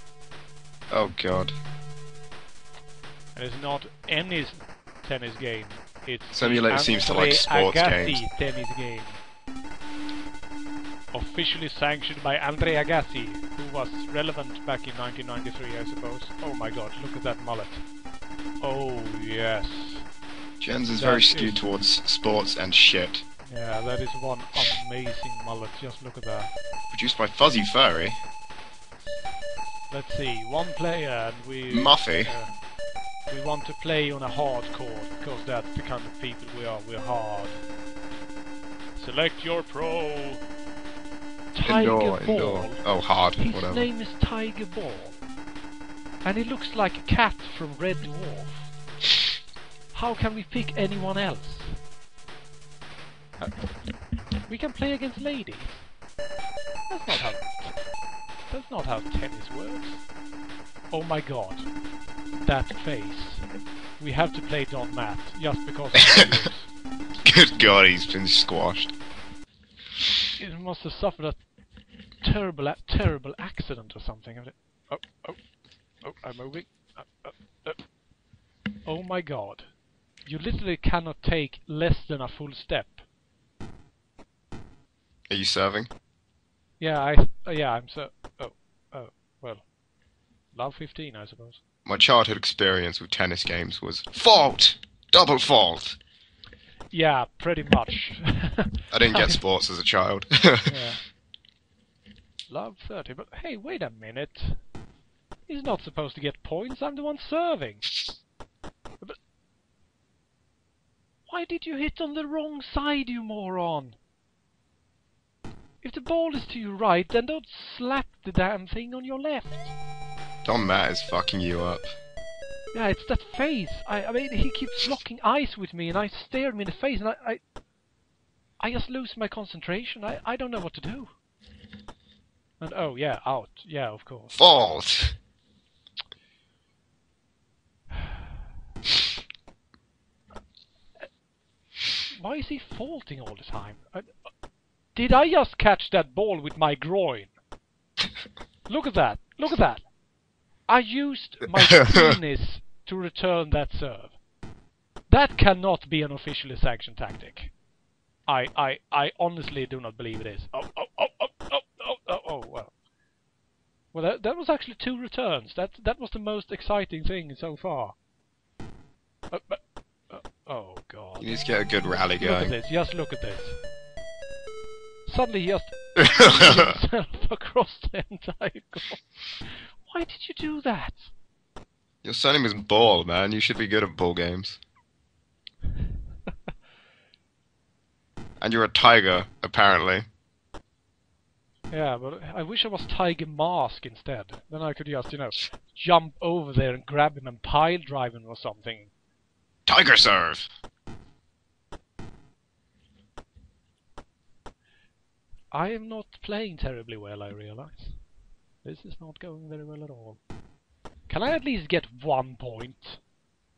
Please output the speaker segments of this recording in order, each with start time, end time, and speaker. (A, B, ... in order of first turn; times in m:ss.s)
0:00.9-0:01.6 A
0:03.4-0:09.2 B
0:06.3-0:08.2 A
0:11.1-0:17.8 B
0:18.6-0:20.1 B
0:20.6-0:23.2 A
0:20.9-0:21.6 B
0:23.4-0:26.5 B
0:26.9-0:28.2 A
0:29.9-0:32.7 B
0:31.7-0:32.4 A
0:33.3-0:37.6 B
0:39.0-0:40.4 B
0:41.5-0:45.2 B
0:41.6-0:43.9 A
0:46.2-0:48.8 B
0:49.9-0:51.8 B
0:53.4-0:53.8 B
0:54.4-0:55.9 B
0:56.9-0:57.9 B
0:58.5-1:00.1 B
1:00.9-1:01.8 B
1:02.4-1:06.7 B
1:07.2-1:09.0 A
1:10.4-1:11.5 B
1:12.2-1:17.9 B
1:18.8-1:23.1 B
1:25.3-1:25.9 A
1:26.8-1:29.7 B
1:30.5-1:31.6 B
1:31.8-1:36.0 A
1:36.9-1:39.4 B
1:38.9-1:40.8 A
1:40.7-1:41.1 B
1:42.5-1:44.7 B
1:45.5-1:48.0 B
1:51.3-1:54.0 B
1:55.8-1:59.7 B
2:00.4-2:01.9 A
2:02.7-2:07.4 B
2:08.6-2:11.2 B
2:12.6-2:14.4 B
2:14.3-2:15.2 A
2:22.1-2:24.3 B
2:24.9-2:27.4 B
2:28.7-2:30.0 B
2:30.6-2:34.2 B
2:35.1-2:37.6 B
2:38.2-2:42.8 B
2:43.9-2:48.0 B
2:49.3-2:53.6 B
2:51.2-2:52.6 A
2:55.1-3:01.1 B
2:56.0-2:56.8 A
3:02.0-3:04.6 A
3:08.4-3:10.0 A
3:11.7-3:18.9 B
3:19.7-3:20.5 A
3:25.5-3:28.1 B
3:28.6-3:30.2 B
3:31.1-3:33.0 B